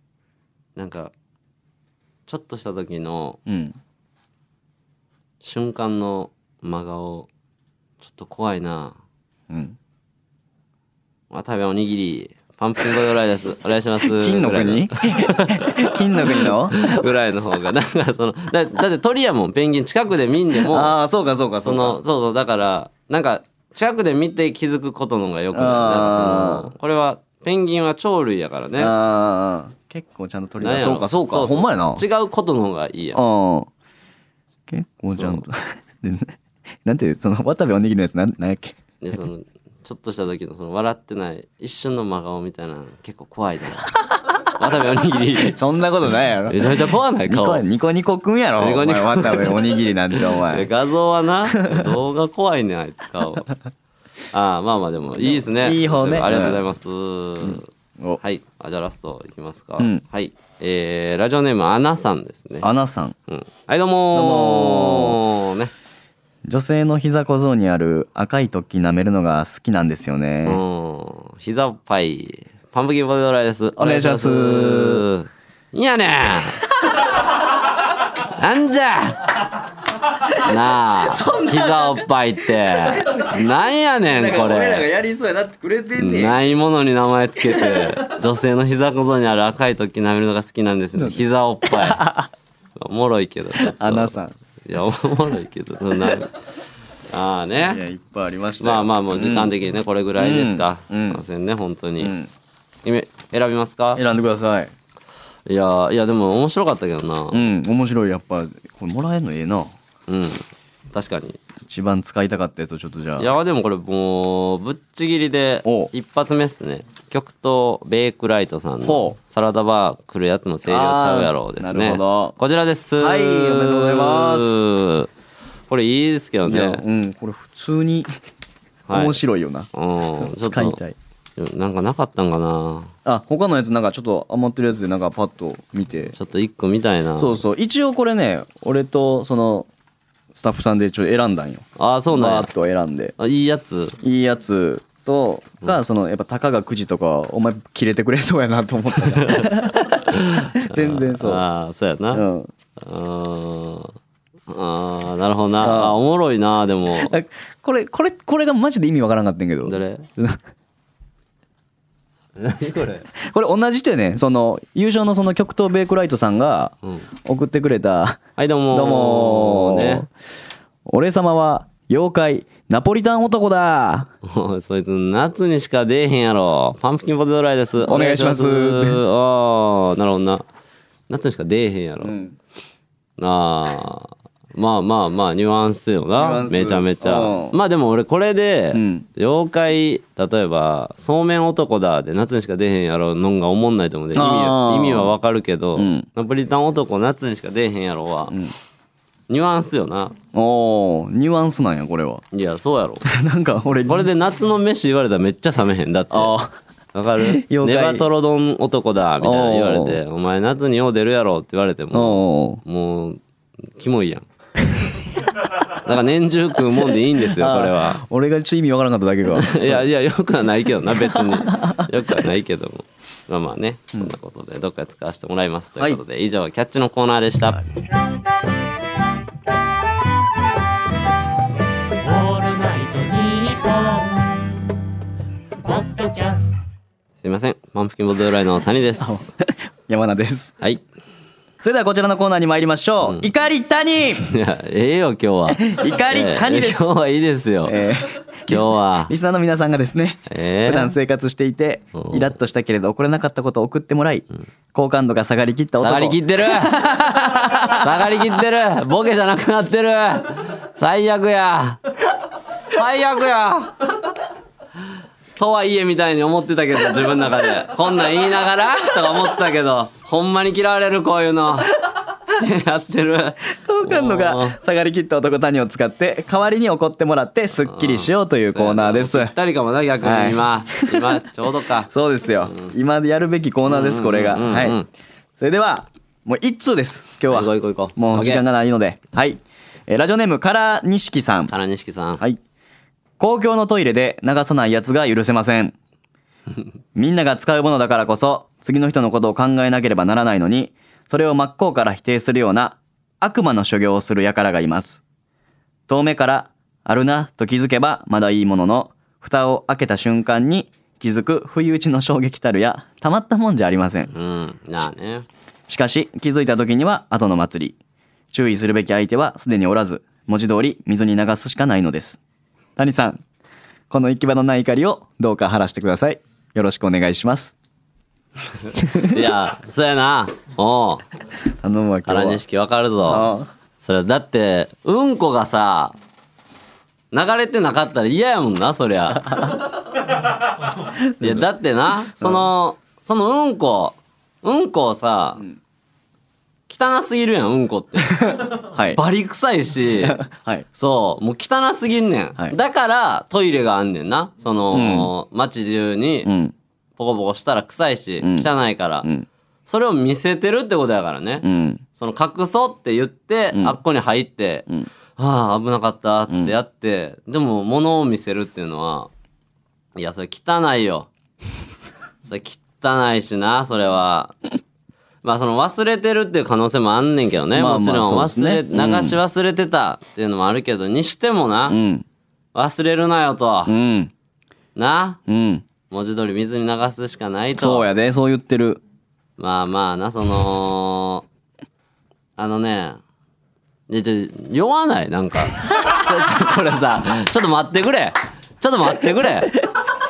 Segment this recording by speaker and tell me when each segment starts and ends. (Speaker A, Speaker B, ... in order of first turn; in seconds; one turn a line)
Speaker A: 0.8-1.1
Speaker A: 2.3-3.4
Speaker B: 3.5-3.8
Speaker A: 5.4-7.3
Speaker A: 8.0-9.0
Speaker B: 9.5-9.8
Speaker A: 11.3-21.0
Speaker B: 14.0-17.1
Speaker B: 20.7-22.0
Speaker A: 21.6-28.9
Speaker B: 25.5-26.7
Speaker B: 28.8-32.0
Speaker A: 30.6-33.2
Speaker B: 33.1-33.7
Speaker B: 34.7-38.8
Speaker A: 35.1-35.4
Speaker A: 39.0-45.6
Speaker B: 45.4-50.7
Speaker A: 46.5-47.6
Speaker A: 48.6-53.5
Speaker B: 51.5-51.9
Speaker A: 54.3-62.7
Speaker B: 55.2-56.6
Speaker B: 57.4-58.2
Speaker B: 62.6-63.1
Speaker A: 63.3-65.7
Speaker B: 64.1-65.2
Speaker B: 66.5-70.6
Speaker A: 70.5-76.6
Speaker B: 73.8-75.1
Speaker A: 78.2-79.4
Speaker A: 80.3-84.9
Speaker B: 81.0-82.1
Speaker B: 82.7-83.5
Speaker B: 84.1-86.4
Speaker A: 86.0-92.0
Speaker B: 87.5-88.0
Speaker B: 91.0-92.3
Speaker A: 92.8-96.4
Speaker B: 93.6-94.3
Speaker A: 97.1-97.8
Speaker B: 97.6-99.5
Speaker A: 98.6-102.1
Speaker B: 100.2-101.2
Speaker B: 102.0-102.3
Speaker A: 102.8-104.0
Speaker B: 104.0-104.7
Speaker A: 105.5-107.5
Speaker B: 107.3-109.7
Speaker A: 110.1-111.4
Speaker B: 111.6-113.3
Speaker A: 113.2-125.1
Speaker B: 115.7-115.9
Speaker B: 118.8-119.2
Speaker B: 120.7-122.4
Speaker B: 123.0-124.6
Speaker A: 125.7-126.8
Speaker B: 126.5-128.1
Speaker A: 128.9-129.2
Speaker B: 128.9-129.7
Speaker A: 129.7-130.8
Speaker B: 130.2-131.0
Speaker A: 131.4-132.9
Speaker B: 133.1-136.1
Speaker A: 136.1-137.4
Speaker B: 137.2-139.7
Speaker B: 140.3-143.1
Speaker A: 141.8-142.5
Speaker A: 143.2-144.0
Speaker B: 144.0-151.4
Speaker A: 149.2-149.5
Speaker A: 150.1-152.3
Speaker B: 152.1-152.5
Speaker A: 152.8-154.0
Speaker A: 154.5-157.1
Speaker B: 155.6-156.0
Speaker B: 157.0-160.4
Speaker A: 159.7-160.1
Speaker A: 162.4-163.1
Speaker B: 163.2-168.2
Speaker A: 168.4-170.1
Speaker B: 168.7-170.1
Speaker B: 170.9-174.1
Speaker A: 174.2-180.4
Speaker B: 177.9-179.0
Speaker A: 181.1-182.2
Speaker B: 182.0-182.3
Speaker A: 183.2-198.4
Speaker B: 186.2-187.6
Speaker B: 188.7-189.1
Speaker B: 194.1-195.1
Speaker B: 195.8-196.1
Speaker A: 199.3-200.2
Speaker B: 200.3-202.2
Speaker A: 202.3-203.1
Speaker B: 203.1-204.1
Speaker A: 203.8-206.3
Speaker B: 206.1-206.5
Speaker A: 206.9-213.2
Speaker B: 207.2-208.1
Speaker B: 209.2-210.0
Speaker B: 211.9-212.6
Speaker A: 213.8-214.3
Speaker A: 215.8-218.0
Speaker B: 217.3-219.8
Speaker A: 219.3-227.6
Speaker B: 221.1-221.8
Speaker C: 232.0-234.3
Speaker C: 235.6-236.5
Speaker A: 237.2-239.3
Speaker B: 239.0-240.6
Speaker B: 241.6-244.3
Speaker A: 243.0-243.3
Speaker A: 244.2-247.8
Speaker B: 245.5-246.9
Speaker B: 247.7-258.3
Speaker A: 248.5-249.1
Speaker A: 250.3-250.9
Speaker A: 251.9-252.3
Speaker A: 255.8-256.9
Speaker A: 257.7-261.8
Speaker A: 262.6-263.8
Speaker A: 265.4-271.7
Speaker A: 272.4-274.6
Speaker B: 273.5-279.3
Speaker A: 277.6-281.9
Speaker B: 280.0-281.2
Speaker B: 281.9-284.8
Speaker A: 282.4-282.8
Speaker A: 283.7-284.9
Speaker B: 285.4-291.5
Speaker A: 287.3-288.4
Speaker A: 291.5-292.2
Speaker B: 293.2-295.7
Speaker B: 296.9-305.0
Speaker B: 305.9-314.1
Speaker A: 314.1-315.3
Speaker B: 315.7-317.8
Speaker B: 318.3-322.2
Speaker B: 322.8-323.2
Speaker B: 323.9-327.6
Speaker B: 328.8-329.2
Speaker A: 328.9-331.1
Speaker B: 331.6-332.4
Speaker A: 332.1-333.3
Speaker B: 333.1-333.5
Speaker A: 333.8-336.0
Speaker A: 337.1-339.4
Speaker B: 341.2-341.4
Speaker A: 341.2-345.4
Speaker B: 342.2-342.5
Speaker A: 346.7-350.2
Speaker B: 348.4-349.0
Speaker B: 350.0-350.6
Speaker A: 350.7-356.3
Speaker B: 354.7-355.1
Speaker B: 356.2-356.5
Speaker A: 357.0-359.1
Speaker B: 358.2-358.5
Speaker A: 359.7-369.1
Speaker B: 361.4-361.8
Speaker B: 363.5-363.8
Speaker A: 369.9-371.1
Speaker A: 372.2-374.3
Speaker A: 375.2-381.8
Speaker B: 377.5-379.2
Speaker B: 381.7-382.1
Speaker A: 382.5-383.7
Speaker B: 383.7-384.1
Speaker A: 384.8-385.2
Speaker B: 385.3-385.6
Speaker A: 385.9-387.9
Speaker B: 387.6-388.8
Speaker A: 389.4-391.2
Speaker A: 392.4-393.0
Speaker A: 393.9-399.6